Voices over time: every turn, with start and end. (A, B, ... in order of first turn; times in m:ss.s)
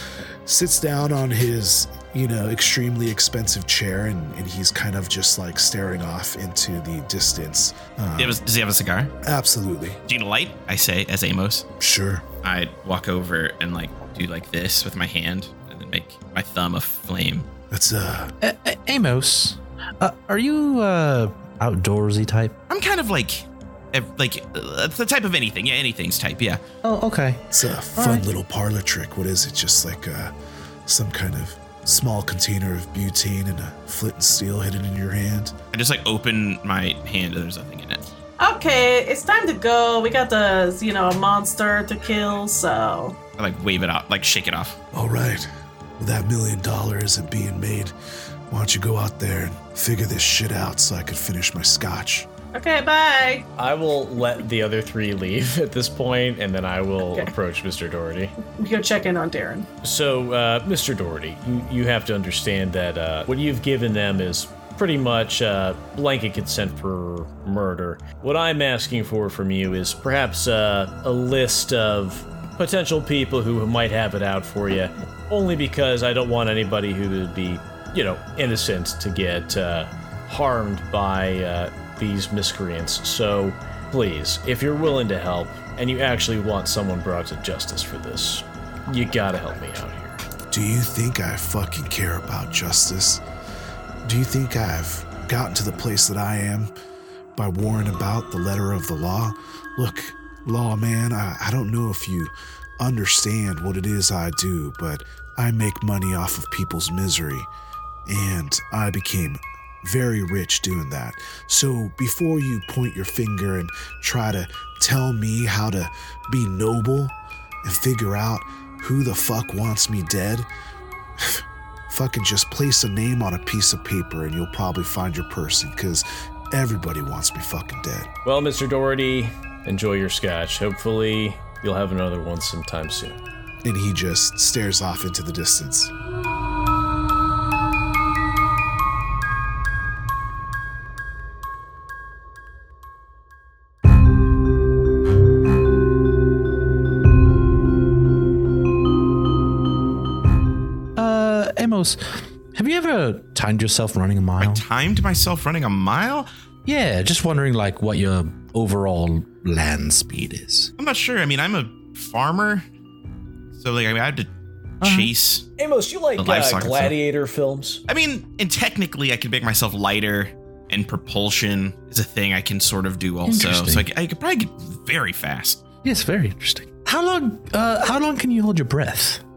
0:00.4-0:08.4 A
0:08.2-0:09.1 B
0:09.2-0:10.0 A
0:10.1-0:11.6 B
0:11.8-0:12.2 A
0:12.4-0:17.4 B
0:17.7-0:18.3 A
0:18.4-0:22.6 C
0:22.7-0:26.6 B
0:26.8-0:27.4 C
0:27.5-0:30.3 A
0:28.0-0:28.2 C
0:30.8-0:35.5 A
0:35.7-0:38.0 B
0:38.4-0:43.2 D
0:43.4-0:44.8 B
0:44.9-0:47.9 A
0:48.5-0:52.3 A
0:52.5-0:53.4 D
0:53.6-0:58.3 E
0:58.5-0:59.7 D
0:59.8-1:30.2 E
1:30.5-1:33.2 A
1:34.0-1:36.7 A
1:37.3-1:47.5 A
1:48.0-2:00.5 A
2:01.2-2:08.1 A
2:08.2-2:13.2 E
2:13.6-2:15.9 A
2:31.0-2:34.6 C
2:34.4-2:36.3 B
2:36.6-2:40.7 C
2:40.8-2:42.6 B
2:43.5-2:44.3 B
2:44.8-2:45.1 C
2:44.8-2:45.5 B
2:45.6-2:47.8 E
2:46.2-2:46.9 B
2:47.9-2:55.6 B
2:53.2-2:53.8 C
2:55.8-2:59.2 C